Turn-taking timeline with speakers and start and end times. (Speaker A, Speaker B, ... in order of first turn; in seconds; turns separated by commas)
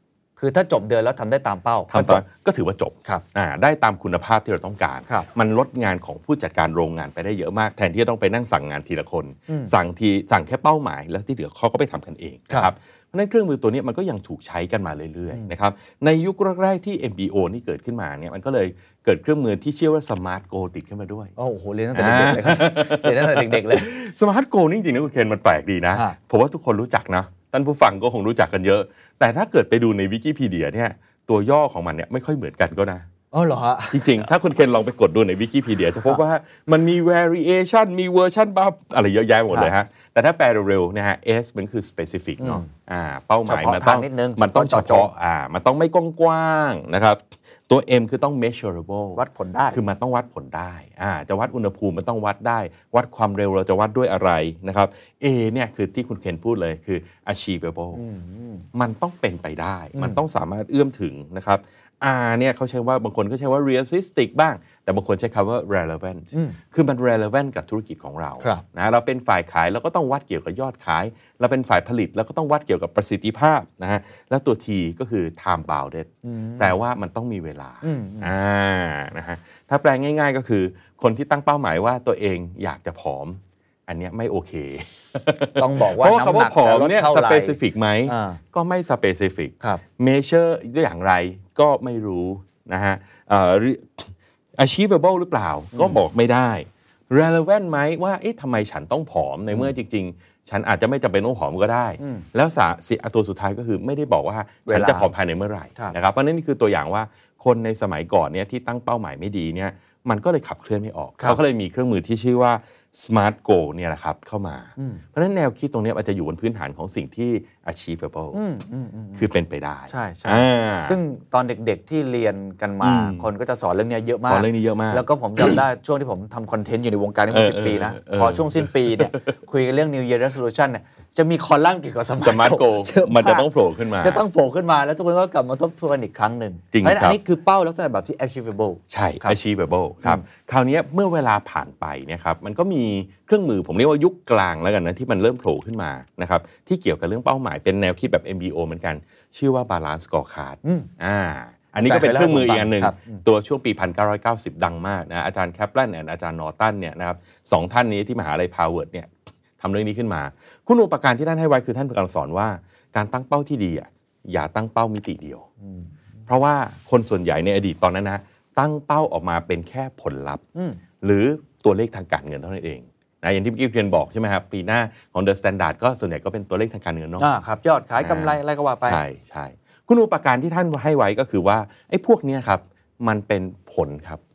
Speaker A: 0.4-2.2, Speaker B: 1.9-21.3, Speaker A: 9.5-9.7, Speaker A: 21.4-23.9, Speaker B: 21.9-33.1, Speaker A: 33.3-34.3, Speaker B: 33.9-58.0, Speaker A: 42.4-42.7, Speaker A: 43.5-45.1, Speaker A: 49.2-49.8, Speaker A: 58.0-58.7, Speaker B: 58.7-118.4, Speaker A: 60.0-60.2, Speaker A: 66.3-66.6, Speaker A: 76.2-76.8, Speaker A: 77.8-78.3, Speaker A: 85.6-88.4, Speaker A: 95.7-96.0, Speaker A: 102.0-102.3, Speaker A: 104.7-105.1, Speaker A: 114.8-115.0, Speaker A: 118.3-119.3, Speaker B: 119.2-121.0, Speaker A: 119.9-139.4, Speaker B: 122.8-123.3, Speaker B: 124.3-125.6, Speaker B: 127.3-129.4, Speaker B: 132.2-134.2, Speaker B: 136.7-137.2, Speaker B: 138.9-165.5, Speaker A: 150.6-150.9, Speaker A: 151.8-153.2, Speaker A: 165.6-165.9, Speaker B: 166.3-170.4, Speaker A: 170.6-170.8, Speaker B: 171.0-177.3, Speaker A: 177.2-179.0, Speaker B: 178.0-184.2